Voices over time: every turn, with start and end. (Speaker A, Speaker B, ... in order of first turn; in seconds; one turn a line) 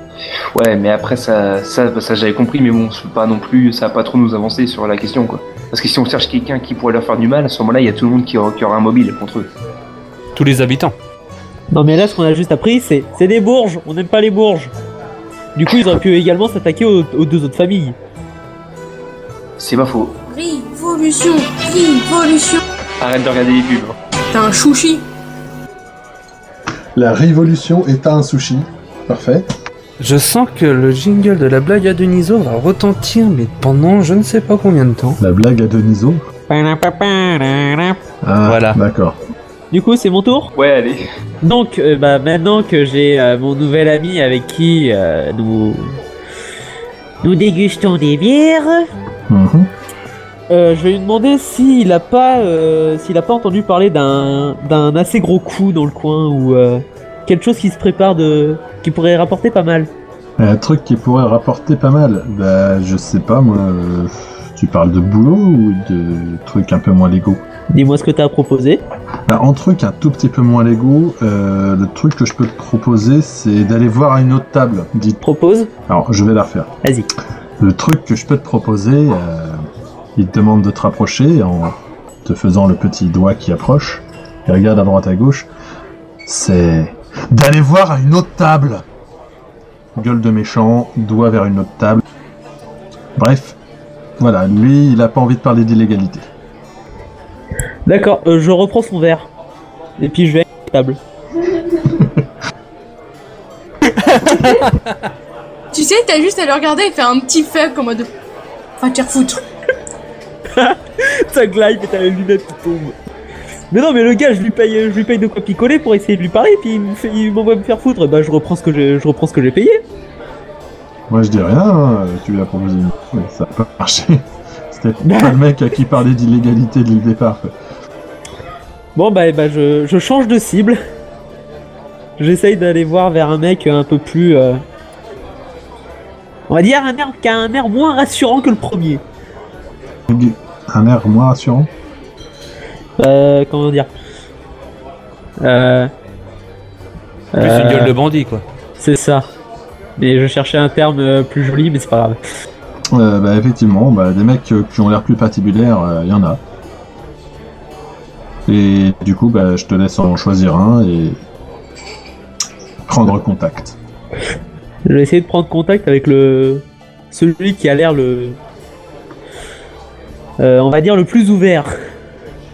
Speaker A: 0.5-9.5
Speaker B: 10.3-10.9
Speaker C: 11.7-14.7
Speaker C: 15.6-18.0
Speaker A: 19.6-20.2
Speaker D: 20.3-22.6
Speaker A: 23.0-24.0
Speaker D: 24.3-25.0
Speaker E: 27.0-29.5
Speaker B: 30.0-35.2
Speaker E: 35.2-36.2
Speaker C: 36.5-38.0
Speaker E: 38.2-39.2
Speaker B: 38.5-38.8
Speaker C: 39.7-40.5
Speaker A: 40.5-41.0
Speaker C: 41.4-46.0
Speaker C: 47.2-48.9
Speaker E: 49.3-49.7
Speaker C: 50.5-59.9
Speaker E: 60.4-67.4
Speaker C: 67.7-68.8
Speaker E: 69.3-75.2
Speaker C: 75.2-75.7
Speaker E: 75.9-76.7
Speaker C: 76.8-77.1
Speaker E: 77.6-79.7
Speaker E: 80.2-85.5
Speaker E: 86.3-88.8
Speaker E: 90.0-92.0
Speaker E: 93.2-93.6
Speaker E: 94.2-96.3
Speaker C: 97.9-99.3
Speaker C: 100.0-101.0
Speaker B: 104.3-104.6
Speaker D: 105.7-108.1
Speaker D: 108.8-109.4
Speaker C: 110.6-112.9
Speaker C: 113.7-119.8
Speaker E: 121.1-127.5
Speaker C: 125.0-125.4
Speaker C: 129.0-130.8
Speaker C: 132.2-134.6
Speaker C: 136.5-139.0
Speaker E: 140.1-141.7
Speaker C: 143.0-143.9
Speaker C: 145.4-145.9
Speaker C: 147.3-147.9
Speaker B: 147.4-148.4
Speaker C: 148.8-149.3
Speaker C: 150.0-152.2
Speaker E: 152.9-156.4
Speaker E: 158.5-161.2
Speaker E: 162.9-163.8
Speaker C: 164.9-168.4
Speaker C: 170.4-171.7